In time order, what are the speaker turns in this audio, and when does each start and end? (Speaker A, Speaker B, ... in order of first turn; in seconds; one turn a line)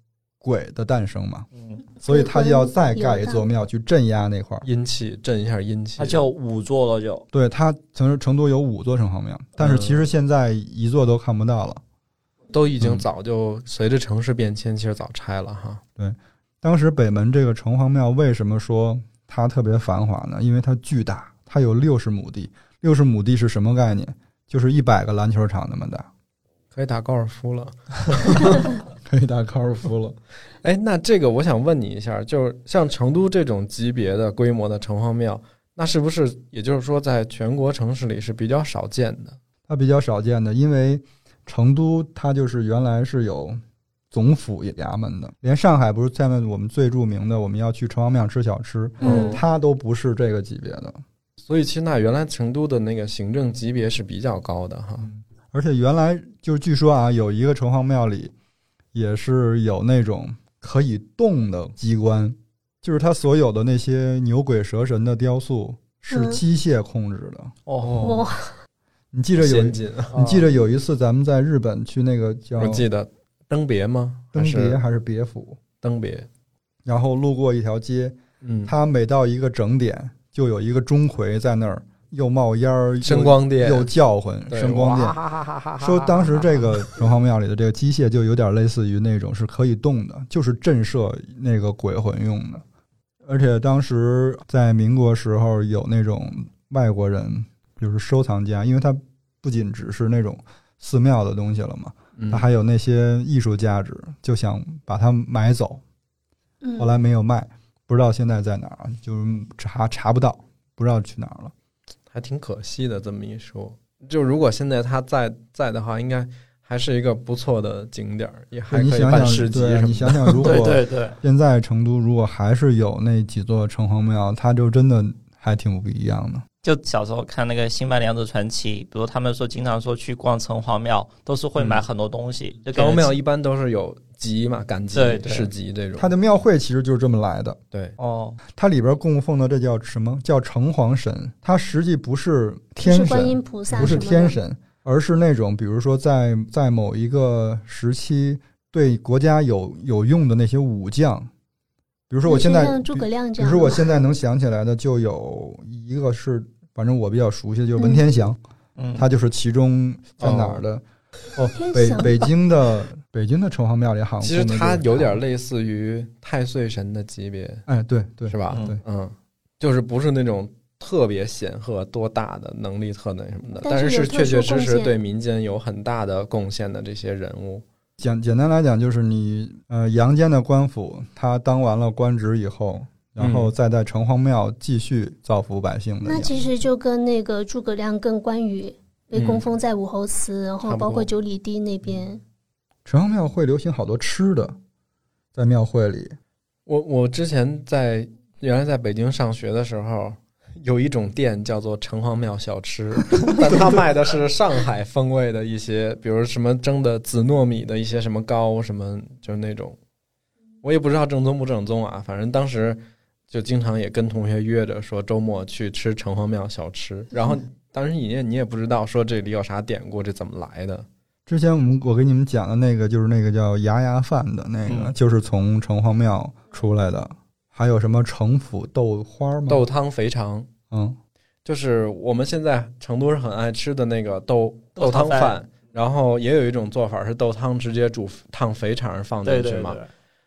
Speaker A: 0.4-1.5
Speaker A: 2.0-4.7
Speaker B: 2.1-3.4
Speaker C: 4.6-6.2
Speaker D: 6.0-7.2
Speaker A: 7.3-11.8
Speaker C: 9.6-10.0
Speaker C: 12.5-15.8
Speaker A: 12.8-13.1
Speaker A: 16.0-26.1
Speaker C: 26.7-28.8
Speaker A: 29.0-30.2
Speaker C: 30.6-39.4
Speaker A: 39.7-43.6
Speaker A: 44.1-51.0
Speaker C: 49.0-49.4
Speaker B: 49.0-49.4
Speaker C: 51.5-55.1
Speaker A: 55.0-58.3
Speaker A: 58.9-67.5
Speaker B: 66.1-66.4
Speaker D: 67.7-68.0
Speaker C: 67.8-68.3
Speaker B: 68.0-68.5
Speaker A: 69.1-72.8
Speaker C: 69.4-70.1
Speaker D: 70.1-70.5
Speaker C: 72.6-74.8
Speaker A: 74.3-75.6
Speaker C: 75.8-76.3
Speaker A: 76.8-85.2
Speaker C: 78.4-78.7
Speaker C: 83.0-83.9
Speaker C: 84.5-86.8
Speaker A: 85.8-92.6
Speaker A: 93.2-105.8
Speaker C: 102.2-102.5
Speaker B: 106.6-106.9
Speaker A: 106.8-111.5
Speaker C: 112.1-120.6
Speaker A: 118.7-126.4
Speaker D: 120.4-121.2
Speaker D: 126.6-133.1
Speaker C: 131.6-131.8
Speaker C: 132.7-136.1
Speaker D: 134.9-135.5
Speaker A: 136.0-137.6
Speaker D: 138.0-138.4
Speaker A: 138.5-151.3
Speaker B: 142.8-144.4
Speaker A: 152.1-158.4
Speaker B: 152.2-153.8
Speaker B: 157.8-158.0
Speaker D: 158.8-159.1
Speaker A: 159.0-160.8
Speaker C: 160.2-160.6
Speaker A: 161.3-165.2
Speaker B: 161.5-162.2
Speaker C: 164.2-167.6
Speaker A: 167.7-168.8
Speaker C: 168.3-177.6
Speaker D: 168.5-168.8
Speaker B: 173.6-174.9
Speaker A: 178.0-186.3
Speaker C: 183.2-183.5
Speaker B: 186.1-192.2
Speaker C: 189.1-189.4
Speaker C: 190.6-191.1
Speaker A: 192.8-194.6
Speaker A: 195.3-196.2
Speaker C: 196.7-209.8
Speaker A: 203.5-203.8
Speaker C: 210.6-212.8
Speaker C: 213.3-220.8
Speaker A: 221.3-229.6
Speaker D: 224.7-224.9
Speaker C: 229.5-230.5
Speaker A: 230.7-231.0
Speaker C: 231.4-239.8
Speaker D: 234.8-235.4
Speaker D: 239.2-239.9